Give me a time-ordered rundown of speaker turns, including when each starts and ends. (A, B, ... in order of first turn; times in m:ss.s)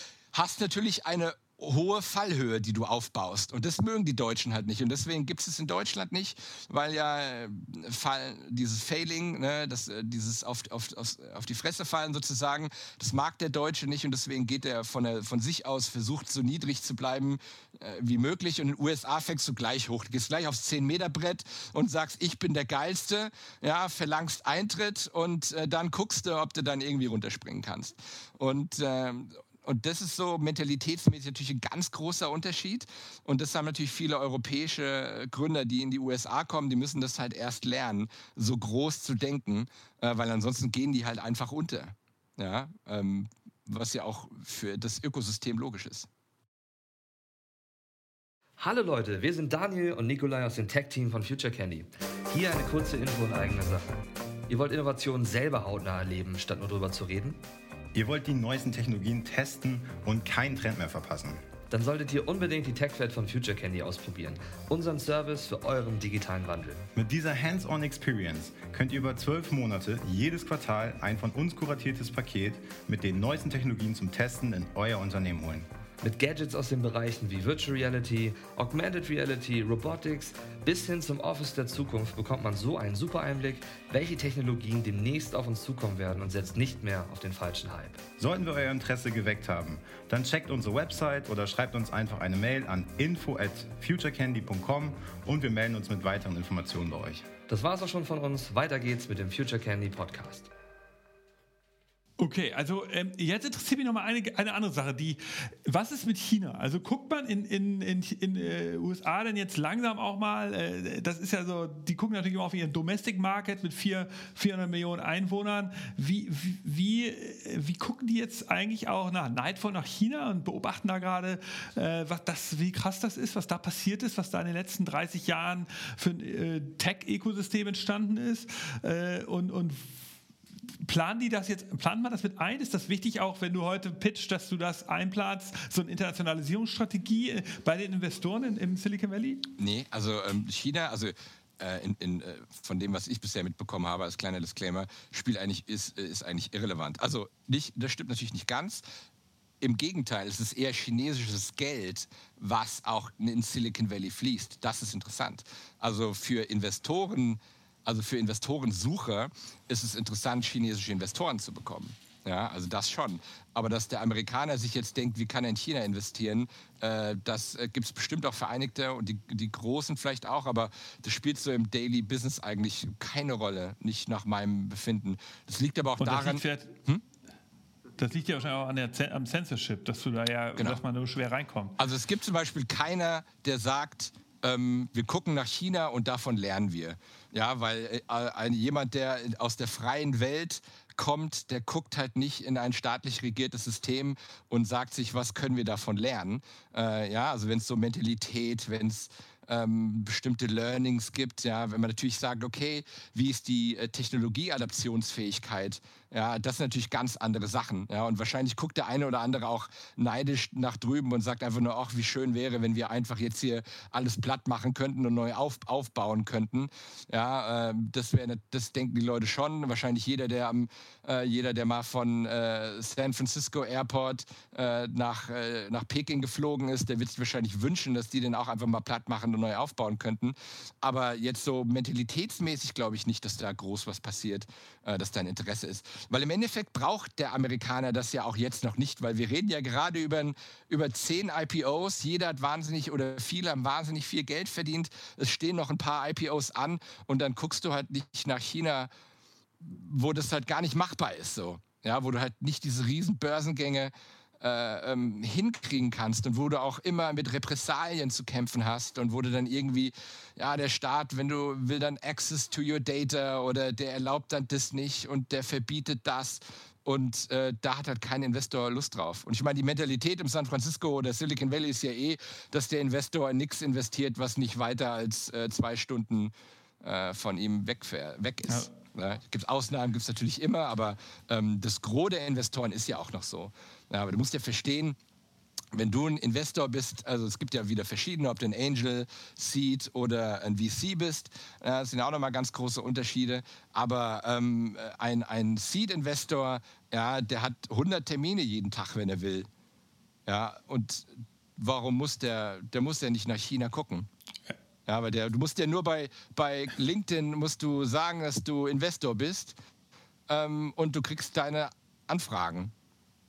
0:00.3-0:46.1 A
0:48.6-0:57.4 B
0:57.9-1:01.4 C
1:01.7-1:06.8 B
1:07.0-1:15.6 C
1:16.0-1:28.0 B
1:28.2-1:37.2 C
1:37.5-1:40.5 B
1:42.2-2:09.9 D
2:10.8-2:19.4 D
2:19.6-2:28.8 A
2:29.6-2:57.0 A
2:56.0-2:56.7 D
2:58.0-3:01.8 D
3:01.8-4:08.9 A
4:09.6-4:45.0 A
4:45.7-4:59.5 A
5:00.2-5:04.1 A
5:04.8-5:09.6 A
5:10.3-5:12.7 A